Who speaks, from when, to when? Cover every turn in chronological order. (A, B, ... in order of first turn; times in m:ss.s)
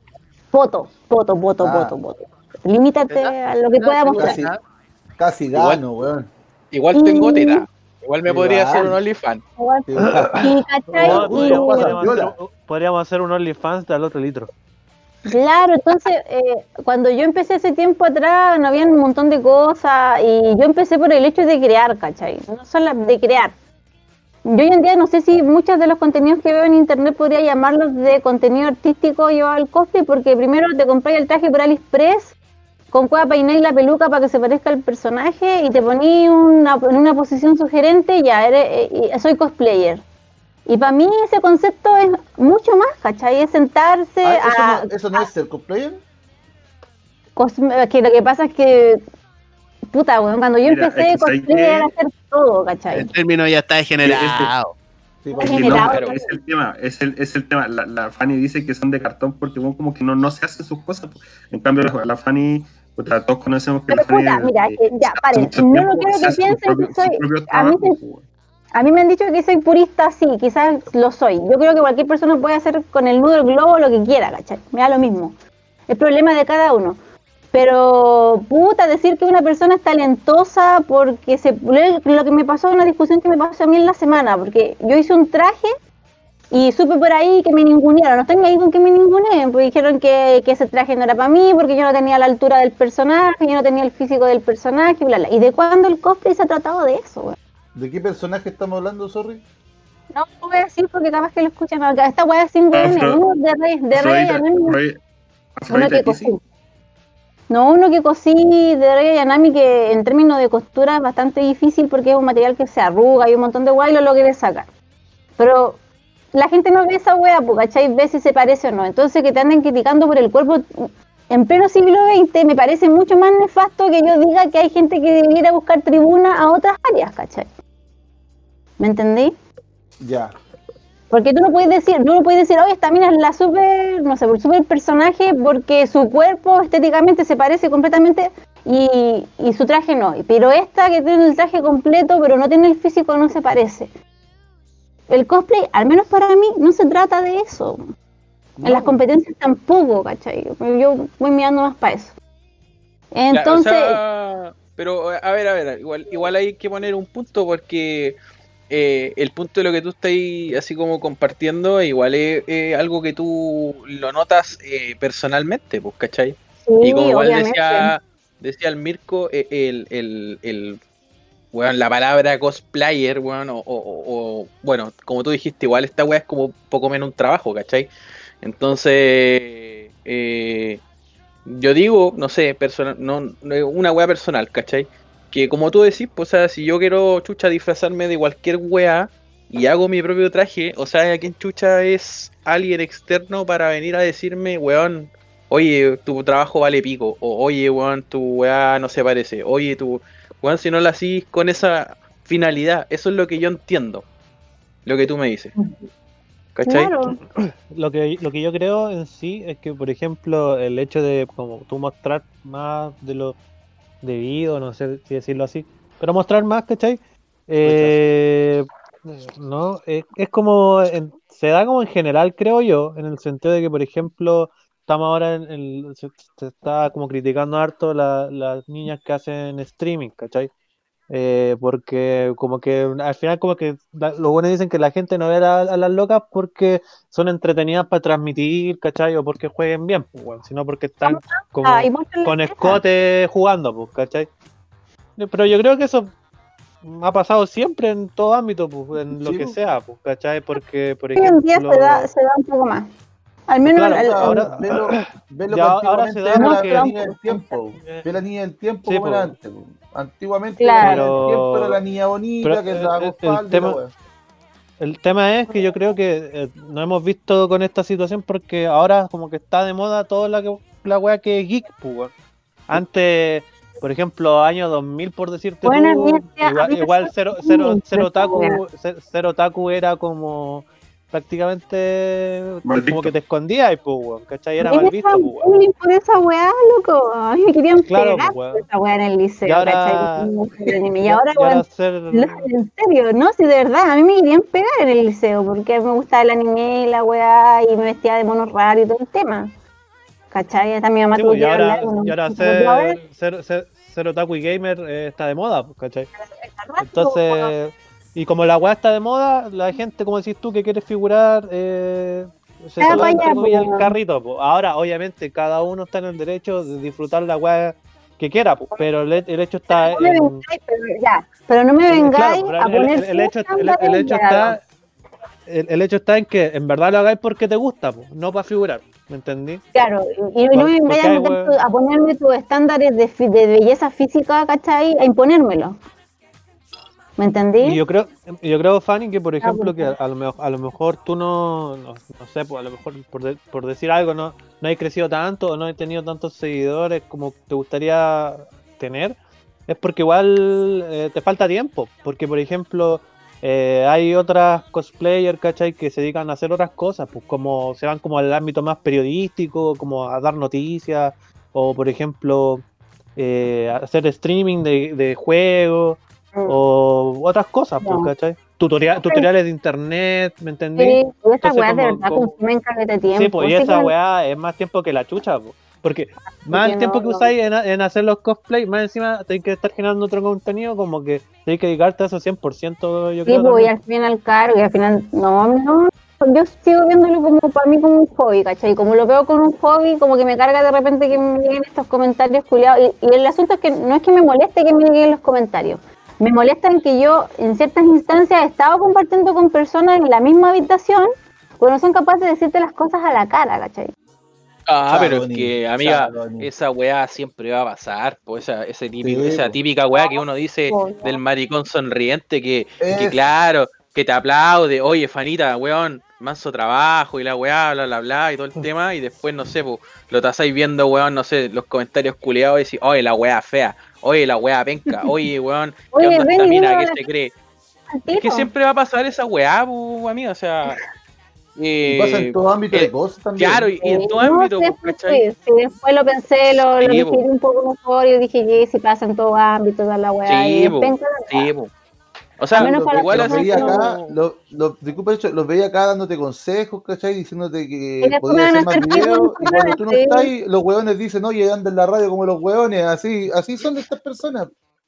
0:00.5-0:04.4 A
0:01.6-0:02.0 B
0:03.1-0:04.6 C
0:04.2-0:04.5 B
0:05.2-0:06.3 B
0:05.5-0:05.8 D
0:06.7-0:09.4 D
0:06.9-0:07.6 A
0:08.2-0:09.0 B
0:09.6-0:12.1 A
0:09.9-0:12.4 B
0:10.0-0:10.4 E
0:11.0-0:14.5 E
0:15.2-0:23.5 A
0:24.4-0:32.3 A
0:32.9-0:40.0 A
0:40.7-0:45.3 A
0:44.2-0:46.0 B
0:47.4-0:49.0 A
0:49.9-0:53.1 A
0:50.6-0:51.9 F
0:52.9-0:54.7 C
0:54.0-0:54.5 F
0:55.2-0:55.9 B
0:55.4-0:56.4 A
0:55.4-1:08.2 F
0:55.8-0:56.2 D
1:03.9-1:08.0 A
1:08.7-1:15.4 A
1:15.9-1:17.0 A
1:17.5-1:25.7 A
1:26.5-1:37.4 A
1:37.7-1:39.4 B
1:40.1-1:44.8 A
1:42.7-1:43.2 F
1:43.9-1:45.0 F
1:45.6-1:46.3 F
1:45.7-1:46.4 A
1:47.5-1:54.7 A
1:55.4-1:55.8 A
1:56.3-2:07.5 A
2:08.8-2:09.3 A
2:10.0-2:10.3 B
2:11.1-2:23.9 A
2:25.1-2:27.8 A
2:28.6-2:29.0 B
2:28.6-2:32.2 A
2:33.1-2:34.0 A
2:33.3-2:38.2 D
2:38.7-2:50.8 D
2:46.7-2:47.9 A
2:51.5-2:57.9 D
2:58.4-3:00.8 D
3:01.4-3:24.0 D
3:24.8-3:25.5 D
3:26.6-3:26.9 D
3:26.7-3:27.2 A
3:27.3-3:33.4 E
3:34.0-3:50.5 E
3:37.6-3:38.0 B
3:51.1-4:04.3 E
4:01.0-4:02.8 A
4:05.2-4:06.1 E
4:06.8-4:12.1 E
4:09.1-4:09.6 B
4:11.2-4:12.9 A
4:13.5-4:14.4 A
4:13.6-4:16.9 E
4:13.8-4:23.9 B
4:16.3-4:17.5 A
4:17.8-4:18.0 E
4:18.8-4:19.3 E
4:20.6-4:21.1 A
4:20.8-4:21.8 E
4:22.4-4:23.8 E
4:24.8-4:32.1 E
4:32.7-4:45.6 E
4:35.6-4:38.6 A
4:42.6-4:43.1 F
4:44.6-4:59.5 A
4:47.9-4:48.6 E
4:49.4-4:50.3 E
4:51.0-4:52.4 E
5:00.3-5:03.0 A
5:01.1-5:06.1 E
5:06.2-5:07.5 A
5:06.8-5:20.4 E
5:12.8-5:13.9 A
5:19.7-5:24.6 A
5:21.9-5:24.6 E
5:25.5-5:29.6 E
5:29.7-5:35.8 A
5:30.5-5:31.5 E
5:37.2-5:37.8 A
5:37.6-5:49.2 E
5:39.4-5:39.9 A
5:49.7-6:02.6 E
6:03.2-6:12.4 E
6:07.8-6:08.1 A
6:10.8-6:13.9 A
6:13.1-6:23.7 E
6:16.4-6:17.3 A
6:23.3-6:43.9 A
6:44.7-7:07.3 D
6:44.9-6:46.5 B
6:49.0-6:49.6 B
6:50.0-6:51.2 A
6:52.8-6:53.2 B
7:05.9-7:07.0 A
7:07.9-7:08.5 A
7:08.2-7:10.8 D
7:11.6-7:15.2 D
7:11.8-7:13.7 B
7:13.8-7:21.5 A
7:16.8-7:17.2 D
7:20.3-7:21.7 D
7:22.4-7:23.9 D
7:22.5-7:23.8 A
7:22.6-7:34.5 B
7:28.0-7:30.3 A